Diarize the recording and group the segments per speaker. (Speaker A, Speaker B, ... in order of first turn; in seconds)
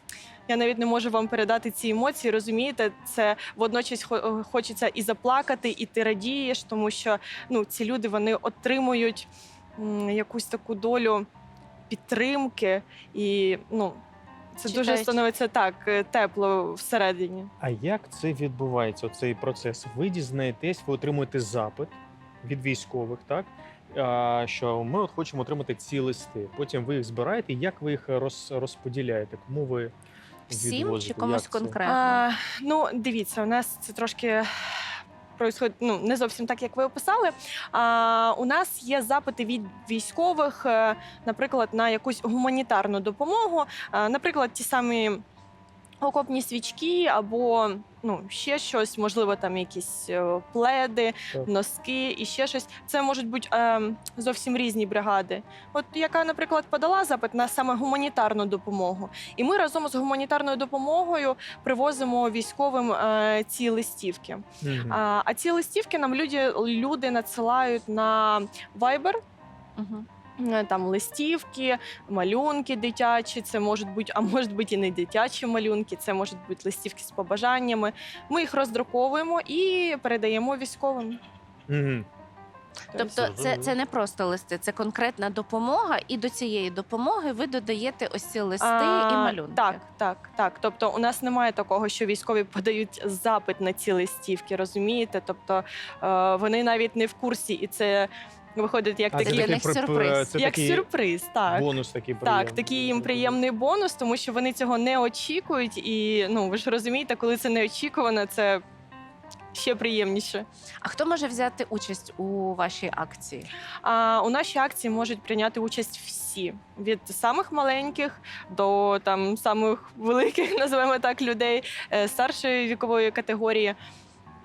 Speaker A: 0.5-11.3, 11.9-14.0, 14.6-17.5, 31.8-45.2, 46.0-69.2, 70.4-81.2, 88.6-99.5, 100.3-101.7, 102.2-108.6, 109.5-110.5, 113.8-123.8
Speaker B: 14.7-15.2, 30.5-32.2, 69.8-70.1, 82.9-89.8, 99.2-100.3, 110.8-113.5
Speaker C: 17.6-29.9, 30.5-31.8, 64.6-65.0, 81.7-82.1, 83.1-83.8, 99.1-100.8, 101.5-103.4